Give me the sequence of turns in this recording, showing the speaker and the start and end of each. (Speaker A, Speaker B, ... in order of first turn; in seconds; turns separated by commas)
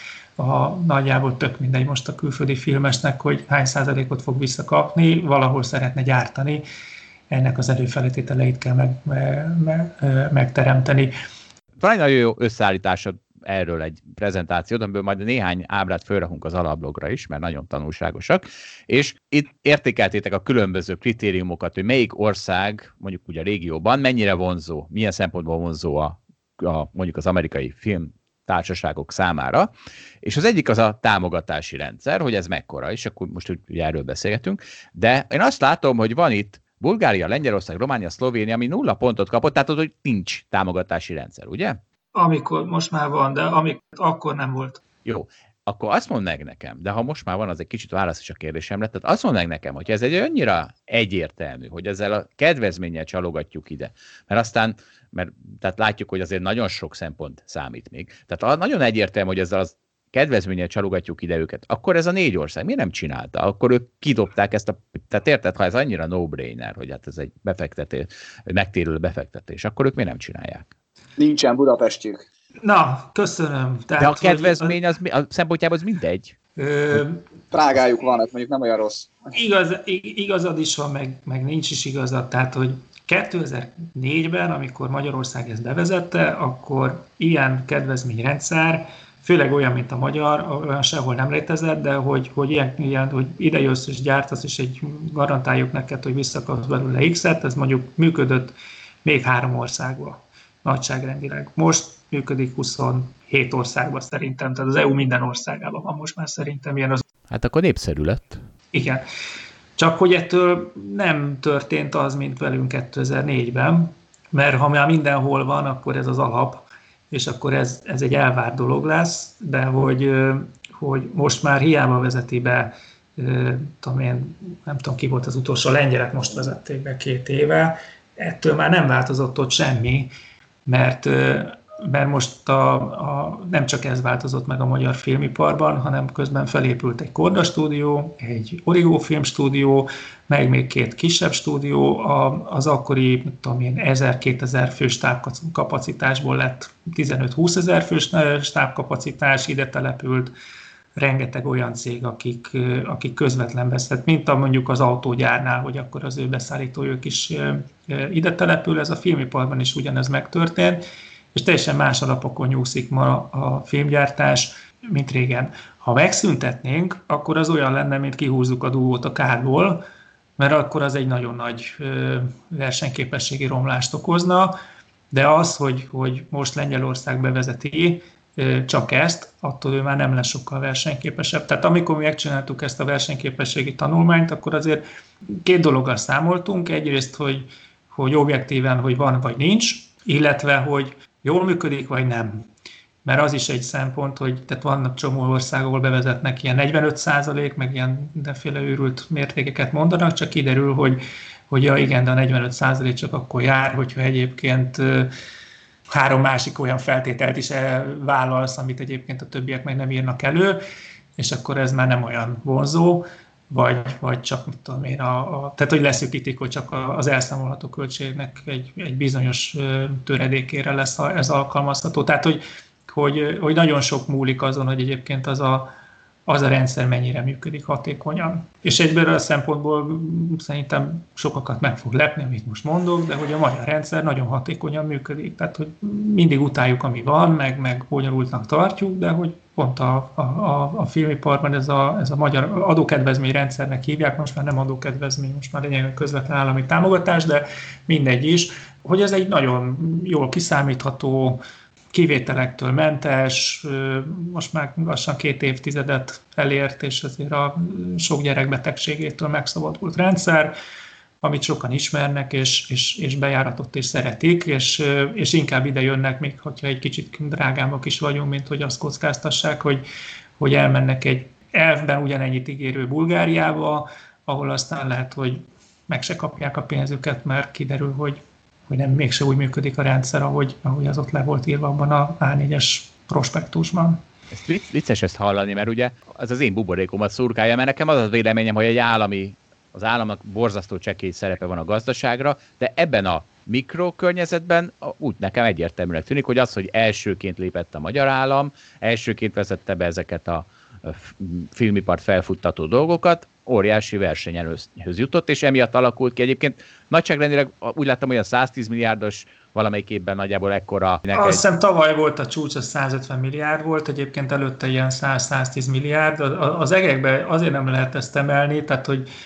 Speaker A: 0.4-6.6, Speaker A: 7.3-11.1, Speaker B: 11.8-29.7, Speaker B: 30.2-41.8, Speaker A: 42.1-44.8, Speaker B: 45.0-70.7, Speaker C: 71.2-72.2, Speaker A: 72.6-74.8, Speaker B: 74.0-76.3, Speaker A: 76.5-77.2, Speaker C: 77.5-79.1, Speaker A: 79.3-107.0, Speaker B: 107.3-108.4, Speaker A: 108.7-109.0, Speaker A: 109.8-130.1, Speaker A: 130.7-150.3, Speaker A: 150.9-160.8, Speaker A: 161.3-169.8, Speaker A: 170.4-174.5, Speaker A: 175.1-192.4, Speaker A: 193.0-205.1, Speaker A: 205.9-210.6, Speaker A: 211.2-225.7, Speaker A: 226.2-251.4, Speaker A: 251.9-260.5, Speaker A: 261.2-269.8, Speaker A: 270.4-284.0, Speaker B: 284.3-311.4, Speaker A: 311.1-319.1